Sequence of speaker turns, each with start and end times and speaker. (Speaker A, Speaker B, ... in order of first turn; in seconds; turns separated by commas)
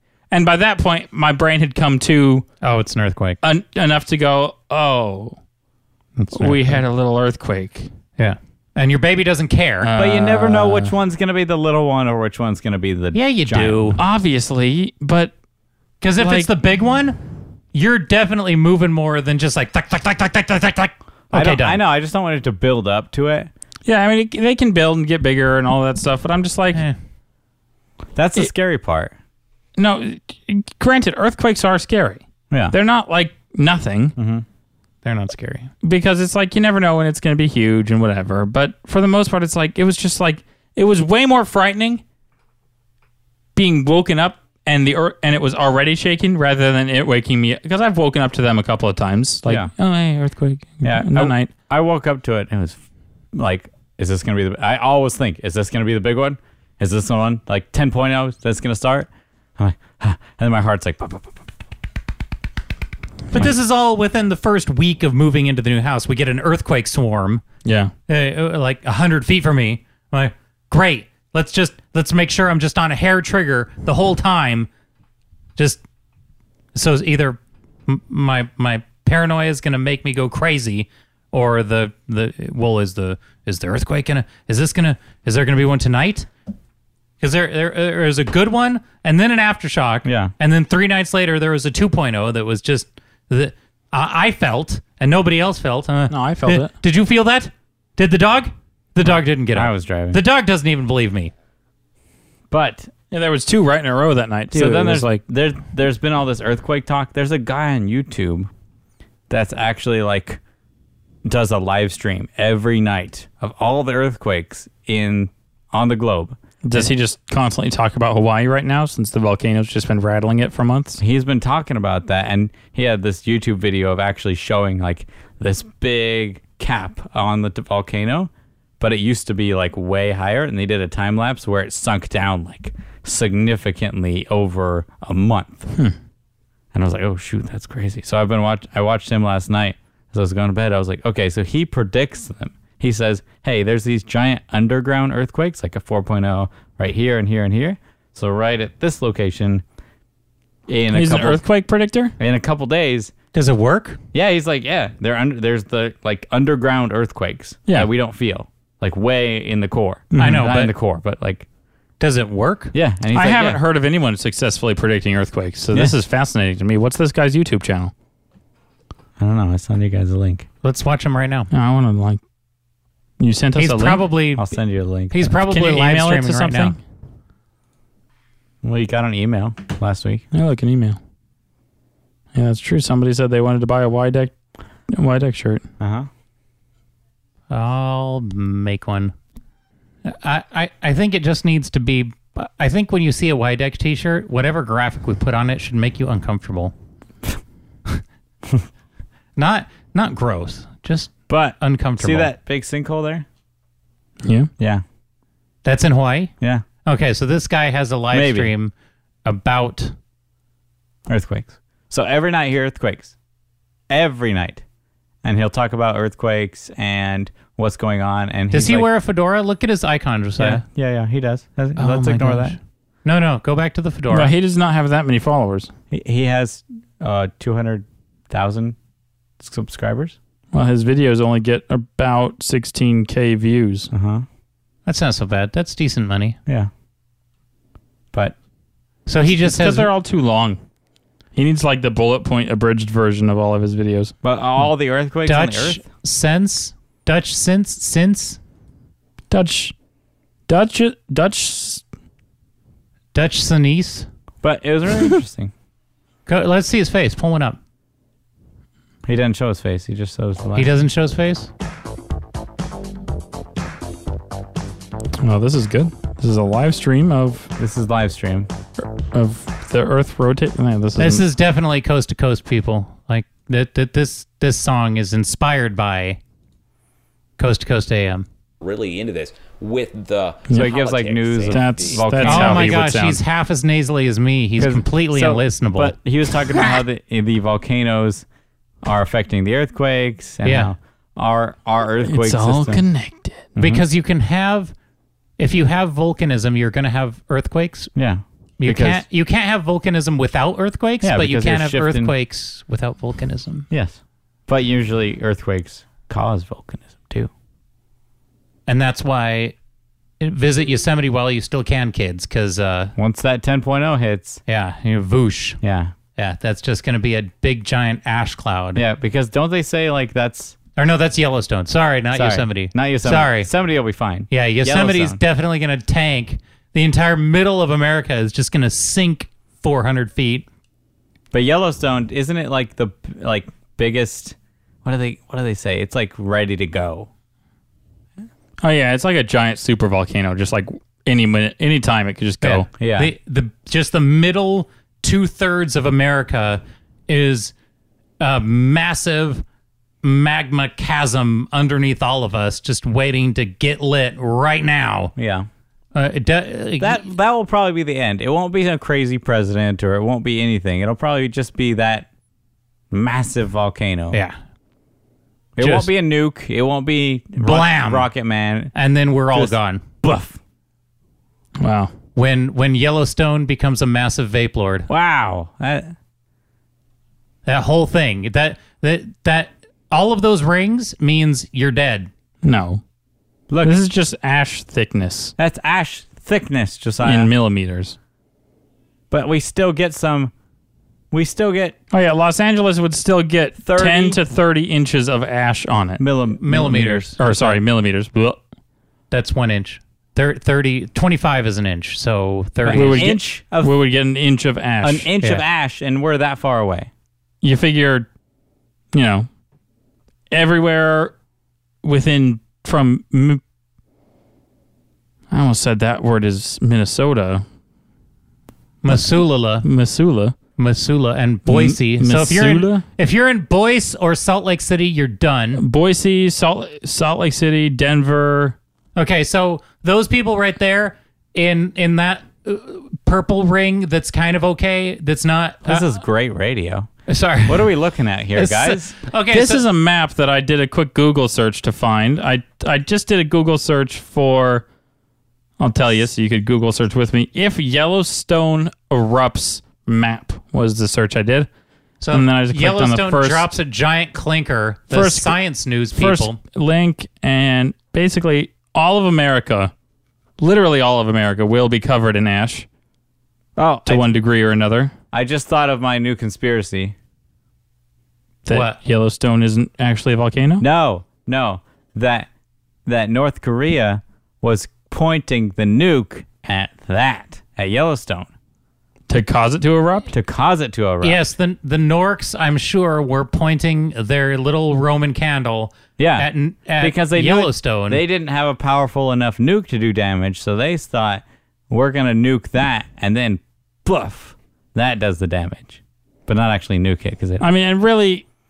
Speaker A: 0.3-2.5, Speaker B: 2.6-3.4, Speaker A: 3.4-5.3, Speaker B: 6.2-6.8, Speaker A: 6.3-7.9, Speaker B: 8.2-9.9, Speaker A: 9.8-10.9, Speaker C: 9.9-13.9, Speaker B: 13.1-14.0, Speaker A: 14.0-15.3, Speaker B: 16.0-17.2, Speaker A: 16.2-16.5, Speaker B: 17.7-21.8, Speaker C: 21.3-23.5, Speaker A: 23.9-26.8, Speaker C: 28.1-29.1, Speaker A: 29.8-34.1, Speaker C: 32.5-32.8, Speaker C: 34.2-34.4, Speaker B: 35.0-35.7, Speaker A: 35.8-42.0, Speaker A: 43.5-51.5, Speaker C: 49.4-49.7, Speaker C: 50.8-52.8, Speaker C: 53.3-61.4, Speaker B: 63.3-67.4, Speaker A: 67.6-67.9, Speaker B: 68.1-74.7, Speaker B: 76.7-86.3, Speaker B: 87.2-101.3, Speaker C: 90.0-90.3, Speaker A: 96.1-96.7, Speaker C: 99.5-100.2, Speaker C: 102.5-102.9, Speaker A: 103.1-105.2, Speaker C: 104.5-108.5, Speaker C: 109.3-110.4, Speaker C: 111.2-116.8, Speaker A: 116.6-121.0, Speaker C: 121.0-135.7, Speaker C: 136.7-149.6, Speaker C: 150.7-151.4, Speaker A: 150.9-152.2, Speaker C: 152.2-153.1, Speaker B: 153.3-154.0, Speaker C: 154.1-161.4, Speaker B: 160.2-160.7, Speaker A: 160.2-160.4, Speaker B: 162.0-162.7, Speaker C: 162.7-163.6, Speaker A: 163.1-167.9, Speaker C: 169.2-170.5, Speaker B: 170.6-171.5, Speaker A: 171.5-172.2, Speaker A: 173.2-174.0, Speaker B: 173.6-174.5, Speaker C: 174.3-175.3, Speaker B: 175.1-176.7, Speaker A: 175.3-176.8, Speaker C: 178.6-180.2, Speaker A: 180.3-181.0, Speaker A: 182.3-184.3, Speaker A: 184.9-185.6, Speaker C: 185.8-186.1, Speaker B: 187.5-189.1, Speaker B: 190.0-196.7, Speaker B: 199.3-202.3, Speaker C: 201.3-203.2, Speaker A: 204.2-204.5, Speaker C: 204.6-204.8, Speaker B: 205.6-206.3, Speaker B: 206.8-208.7, Speaker C: 208.1-208.5, Speaker B: 209.2-209.9, Speaker C: 211.1-213.1, Speaker C: 213.9-214.6, Speaker C: 215.2-218.9, Speaker B: 218.5-220.6, Speaker C: 220.4-222.6, Speaker B: 221.8-224.3, Speaker A: 224.1-225.7, Speaker C: 225.9-228.8, Speaker C: 229.4-230.2, Speaker A: 230.5-233.9, Speaker C: 233.9-234.2, Speaker B: 234.8-236.4, Speaker C: 236.4-236.7, Speaker B: 239.1-239.9, Speaker A: 239.4-240.6, Speaker A: 241.3-244.1, Speaker C: 244.2-245.8, Speaker B: 245.2-248.4, Speaker A: 249.3-249.7, Speaker A: 250.5-251.8, Speaker B: 253.1-254.1, Speaker C: 254.4-255.5, Speaker B: 256.3-257.6, Speaker C: 259.1-260.7, Speaker B: 260.5-261.5, Speaker A: 265.2-267.5, Speaker C: 267.6-268.5, Speaker A: 269.0-271.2, Speaker B: 271.0-276.2, Speaker B: 277.4-278.2, Speaker D: 278.6-282.0, Speaker C: 280.5-282.9, Speaker A: 281.5-283.2, Speaker B: 282.2-285.9, Speaker C: 284.6-288.2, Speaker C: 288.8-292.8, Speaker B: 290.4-290.7, Speaker A: 292.0-293.4, Speaker C: 293.5-293.8, Speaker B: 293.6-294.7, Speaker B: 295.4-297.9, Speaker C: 297.9-299.0, Speaker B: 298.6-303.7, Speaker C: 301.0-302.1, Speaker C: 303.7-307.3, Speaker B: 308.7-309.5, Speaker B: 310.2-312.9, Speaker C: 313.0-314.4, Speaker B: 314.5-315.6, Speaker C: 315.6-315.9, Speaker B: 316.2-318.8, Speaker C: 318.7-320.6, Speaker B: 320.8-323.5, Speaker C: 322.1-325.2, Speaker B: 324.3-330.4, Speaker C: 331.3-337.1, Speaker A: 338.6-342.7, Speaker B: 342.4-347.5, Speaker C: 342.8-343.1, Speaker B: 348.2-349.4, Speaker B: 350.0-355.1, Speaker C: 355.1-355.5, Speaker B: 355.9-357.0, Speaker C: 356.8-362.1, Speaker C: 362.9-364.2, Speaker C: 365.6-368.7, Speaker B: 365.6-365.9, Speaker B: 367.4-368.1, Speaker B: 368.7-369.8, Speaker C: 369.3-370.4, Speaker A: 371.6-371.9, Speaker B: 372.1-374.9, Speaker C: 374.9-375.9, Speaker B: 377.4-382.1, Speaker A: 382.4-382.8, Speaker C: 383.5-383.8, Speaker A: 383.6-385.3, Speaker C: 385.4-387.3, Speaker A: 387.0-387.9, Speaker C: 389.1-390.3, Speaker C: 391.1-391.8, Speaker A: 391.9-396.0, Speaker C: 393.6-394.2, Speaker C: 396.0-397.6, Speaker B: 396.4-397.1, Speaker A: 397.2-398.4, Speaker B: 399.1-403.1, Speaker A: 402.6-405.1, Speaker C: 402.7-403.7, Speaker C: 404.8-406.9, Speaker A: 407.4-408.1, Speaker A: 408.9-409.3, Speaker A: 410.3-411.1, Speaker A: 411.8-413.4, Speaker A: 415.3-417.4, Speaker B: 418.8-419.6, Speaker A: 418.9-420.3, Speaker B: 420.6-425.6, Speaker A: 421.5-422.8, Speaker A: 425.6-428.6, Speaker B: 428.9-435.9, Speaker C: 435.6-436.9, Speaker B: 437.1-437.7, Speaker C: 437.5-438.9, Speaker B: 438.3-439.6, Speaker A: 439.3-444.6, Speaker A: 445.6-451.5, Speaker B: 452.0-456.4, Speaker A: 452.1-453.5, Speaker A: 454.9-455.4, Speaker A: 455.9-459.7, Speaker A: 460.4-462.6, Speaker C: 463.6-464.1, Speaker A: 463.9-464.9, Speaker C: 465.1-466.9, Speaker A: 468.4-470.6, Speaker B: 468.5-468.8, Speaker C: 470.6-472.3, Speaker C: 472.9-478.3, Speaker A: 479.1-480.1, Speaker C: 480.1-481.2, Speaker B: 481.0-488.0, Speaker C: 486.0-497.4, Speaker A: 497.4-498.2